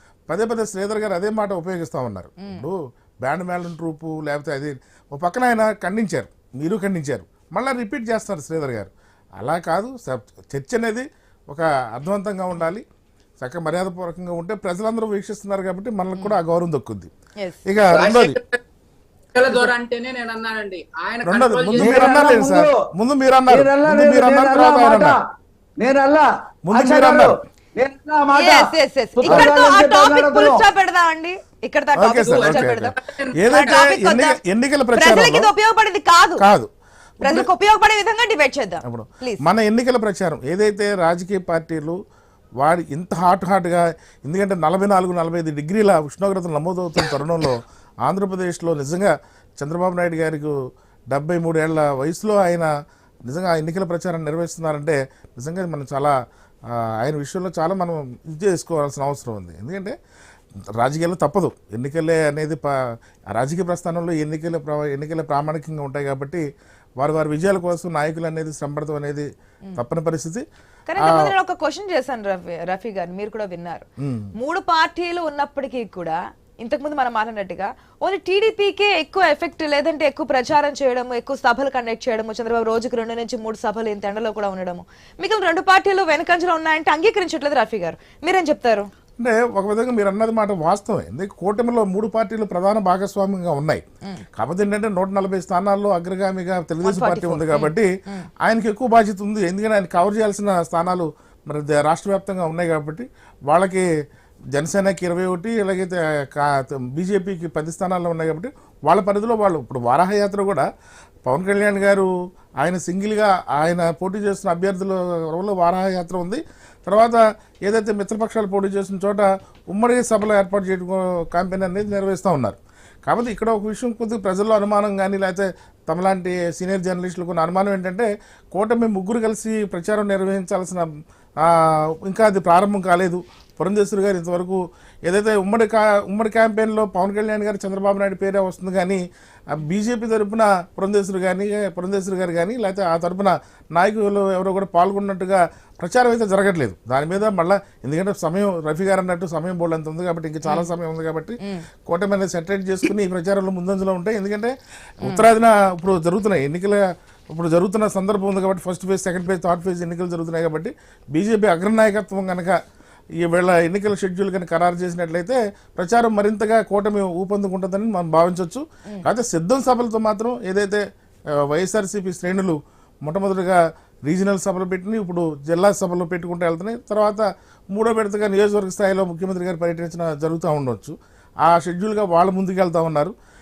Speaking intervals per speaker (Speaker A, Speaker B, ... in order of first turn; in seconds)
Speaker A: 0.3-12.8, 13.4-17.1, 17.6-18.4, 21.2-25.2, 26.6-27.4, 31.9-35.5, 36.4-37.5, 38.8-42.0, 42.6-50.5, 51.1-52.7, 53.3-56.1, 56.7-59.9, 60.8-62.7, 63.3-66.4, 67.0-70.4, 71.0-71.3, 74.0-74.3, 89.2-93.8, 94.3-97.9, 98.4-103.9, 104.5-110.6, 111.2-112.1, 112.6-130.9, 131.4-162.6, 163.2-170.8, 171.4-183.1
Speaker B: 17.9-18.6, 19.3-22.1, 32.2-33.8
Speaker C: 21.8-22.8, 23.5-25.2, 25.8-30.6
Speaker D: 28.3-32.9, 33.5-34.4, 34.9-36.4, 37.2-39.4, 70.9-88.9, 96.8-98.3, 151.4-151.7